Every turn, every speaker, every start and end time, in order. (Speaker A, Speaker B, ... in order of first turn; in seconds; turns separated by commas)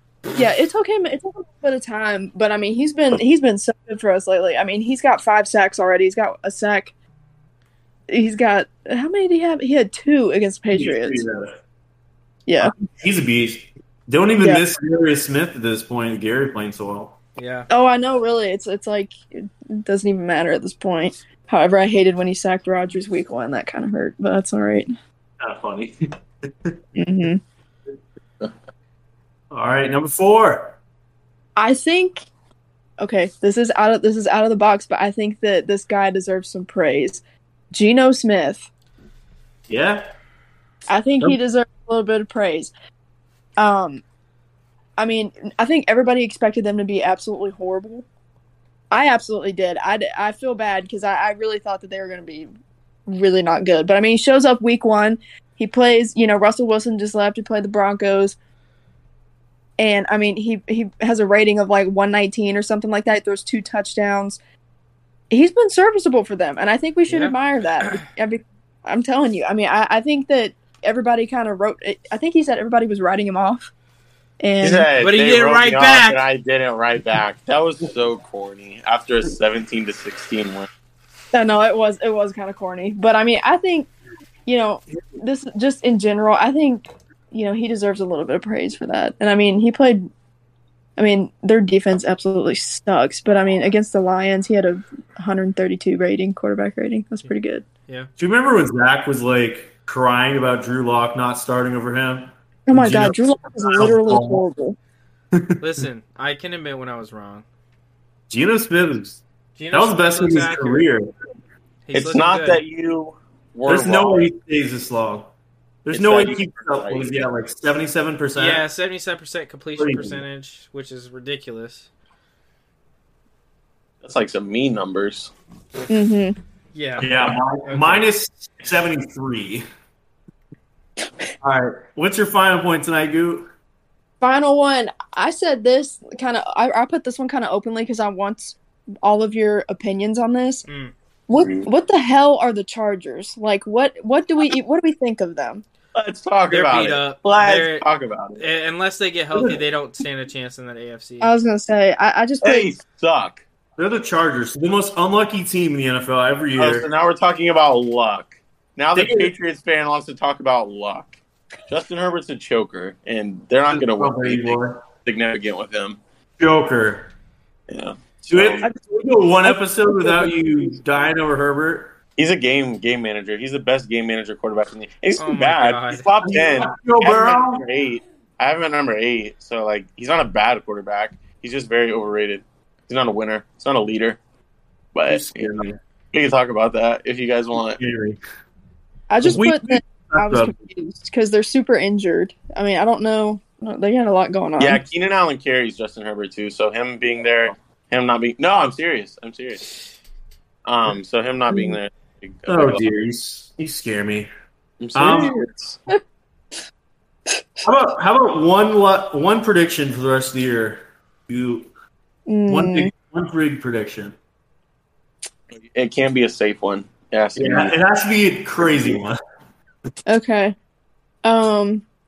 Speaker A: 0.3-6.9, Speaker A: 8.1-11.2, Speaker B: 10.7-11.6, Speaker A: 12.5-12.7, Speaker B: 12.6-17.1, Speaker C: 17.4-17.7, Speaker A: 17.7-24.9, Speaker B: 25.4-26.7, Speaker A: 26.9-27.4, Speaker B: 29.5-30.7, Speaker A: 31.6-32.2, Speaker A: 33.0-38.7, Speaker B: 39.7-40.1, Speaker A: 40.9-42.7, Speaker A: 43.6-44.0, Speaker A: 45.0-48.0, Speaker A: 48.9-52.5, Speaker A: 53.1-58.4, Speaker A: 59.8-64.4, Speaker A: 65.3-73.7, Speaker C: 67.1-68.0, Speaker A: 74.4-74.9, Speaker D: 74.6-80.7, Speaker C: 75.0-76.2, Speaker A: 81.3-83.9, Speaker A: 84.5-90.1, Speaker A: 91.0-97.7, Speaker B: 98.2-104.4, Speaker A: 102.7-104.8, Speaker B: 105.3-105.6, Speaker C: 105.6-107.4, Speaker B: 108.3-109.2, Speaker C: 109.5-110.9, Speaker B: 109.7-111.1, Speaker C: 111.9-112.6, Speaker D: 111.9-114.2, Speaker B: 113.7-115.3, Speaker B: 115.8-118.6, Speaker D: 115.9-117.2, Speaker C: 118.3-121.9, Speaker B: 119.8-120.2, Speaker D: 124.0-125.3, Speaker A: 125.9-126.3, Speaker C: 126.7-128.0, Speaker B: 127.0-129.6, Speaker B: 131.4-133.5, Speaker A: 134.2-140.6, Speaker C: 140.7-140.9, Speaker A: 141.3-145.6, Speaker D: 141.3-141.7, Speaker D: 145.9-148.4, Speaker C: 146.5-147.8, Speaker C: 148.4-151.3, Speaker B: 149.3-149.6, Speaker A: 151.2-152.7, Speaker D: 152.4-153.4, Speaker B: 153.8-156.8, Speaker D: 156.6-161.2, Speaker B: 158.9-159.3, Speaker D: 161.7-166.0, Speaker B: 163.7-164.8, Speaker B: 166.4-167.1, Speaker D: 167.7-168.7, Speaker B: 168.3-171.9, Speaker A: 169.4-170.3, Speaker D: 172.2-184.2, Speaker C: 175.2-176.1, Speaker B: 176.2-177.6, Speaker D: 184.9-185.6, Speaker B: 185.1-185.8, Speaker D: 186.1-187.8, Speaker B: 187.8-188.2, Speaker A: 189.1-194.8, Speaker B: 189.2-190.5, Speaker D: 194.6-199.7, Speaker D: 200.6-202.8, Speaker B: 202.5-204.3, Speaker D: 204.8-205.8, Speaker B: 204.9-205.4, Speaker B: 207.6-211.7, Speaker A: 212.3-212.9, Speaker B: 212.5-214.1, Speaker D: 215.5-217.7, Speaker B: 217.3-219.2, Speaker D: 218.6-219.0, Speaker A: 220.1-220.6, Speaker A: 221.2-221.8